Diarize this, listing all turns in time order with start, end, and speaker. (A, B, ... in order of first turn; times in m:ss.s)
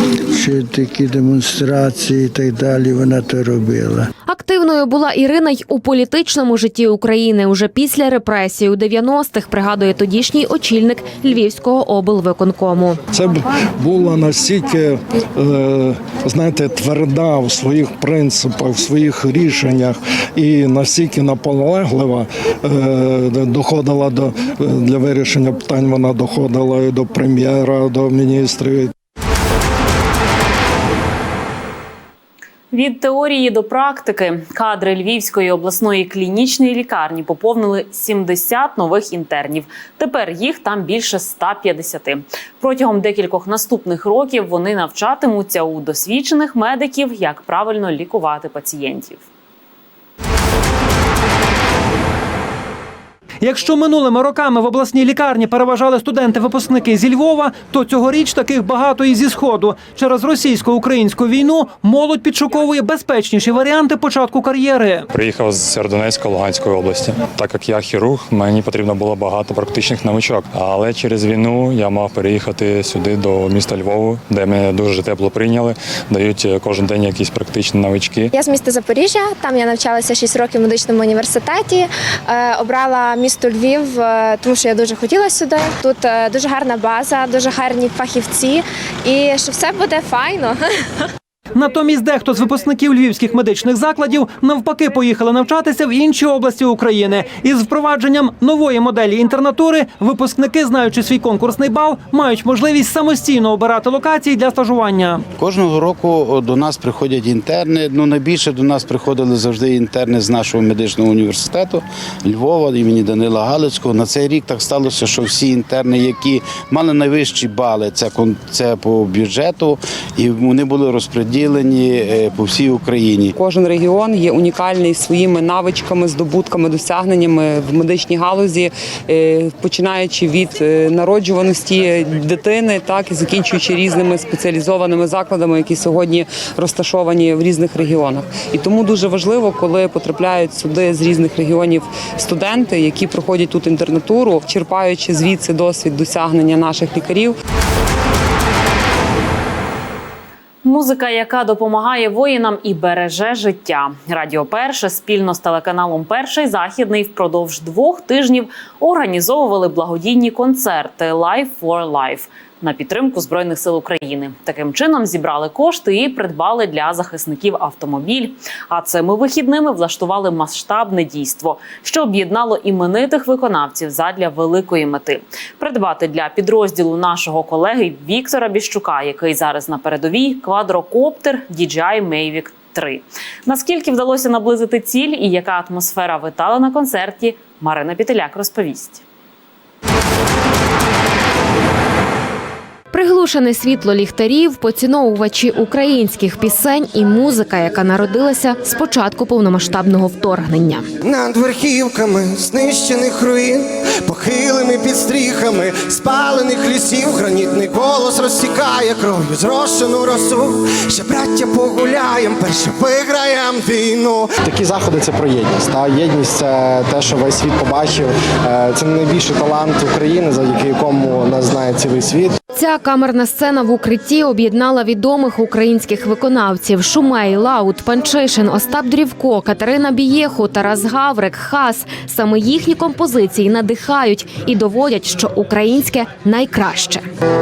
0:00.3-0:04.1 A
0:04.2-0:13.0 B
0:13.1-0:28.9 C
0:32.7-0:49.2 D
0:53.4-1:05.1 E
1:05.1-1:18.3 F
1:18.3-1:30.6 G
1:31.5-1:45.2 E
1:45.4-2:03.3 H
2:03.4-2:27.3 I
2:30.6-3:09.0 D
3:12.9-3:20.9 B
3:21.0-3:34.3 J
3:34.4-3:42.3 K
3:42.5-3:57.0 B